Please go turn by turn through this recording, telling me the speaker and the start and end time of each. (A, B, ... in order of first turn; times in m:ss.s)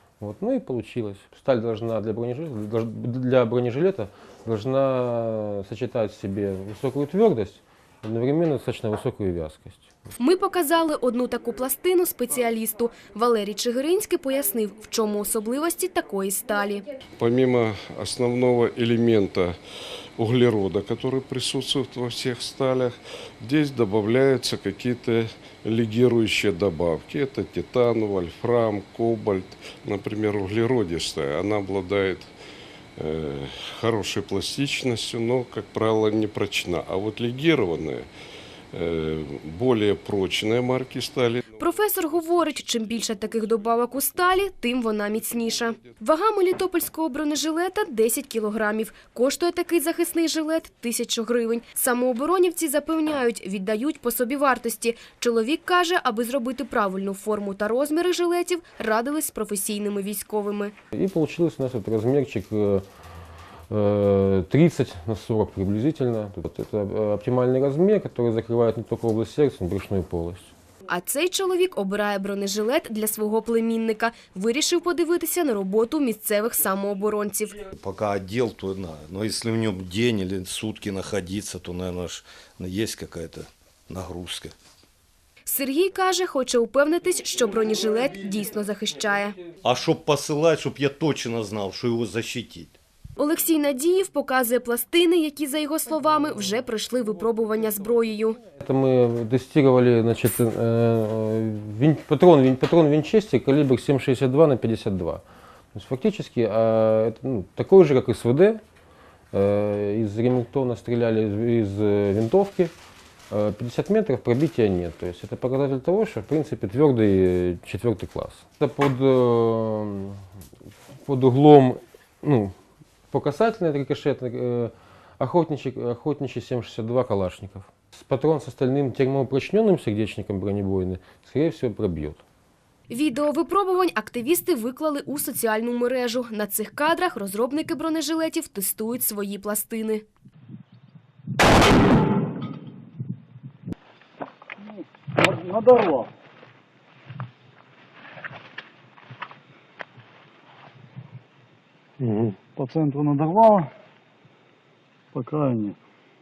0:00.2-0:10.0 A
0:10.2-0:16.8 B
0:17.2-0:19.6 C
0:20.2-0:32.3 C
0:33.0-0:38.1 C
0:38.7-0:41.4 C
0:41.6-1:00.7 B
1:00.9-1:02.8 A
1:03.7-1:10.5 A
1:10.9-1:17.6 B
1:17.7-1:24.5 D
1:25.4-1:29.4 B
1:29.6-1:32.8 D
1:33.2-1:38.4 B
1:38.5-1:45.2 A
1:45.7-1:48.6 A
1:49.3-1:52.7 A
1:53.3-2:00.2 A
2:00.9-2:02.5 A
2:03.1-2:12.2 A
2:12.9-2:20.0 B
2:24.8-2:26.1 E
2:32.0-2:33.7 E
2:35.1-2:35.8 E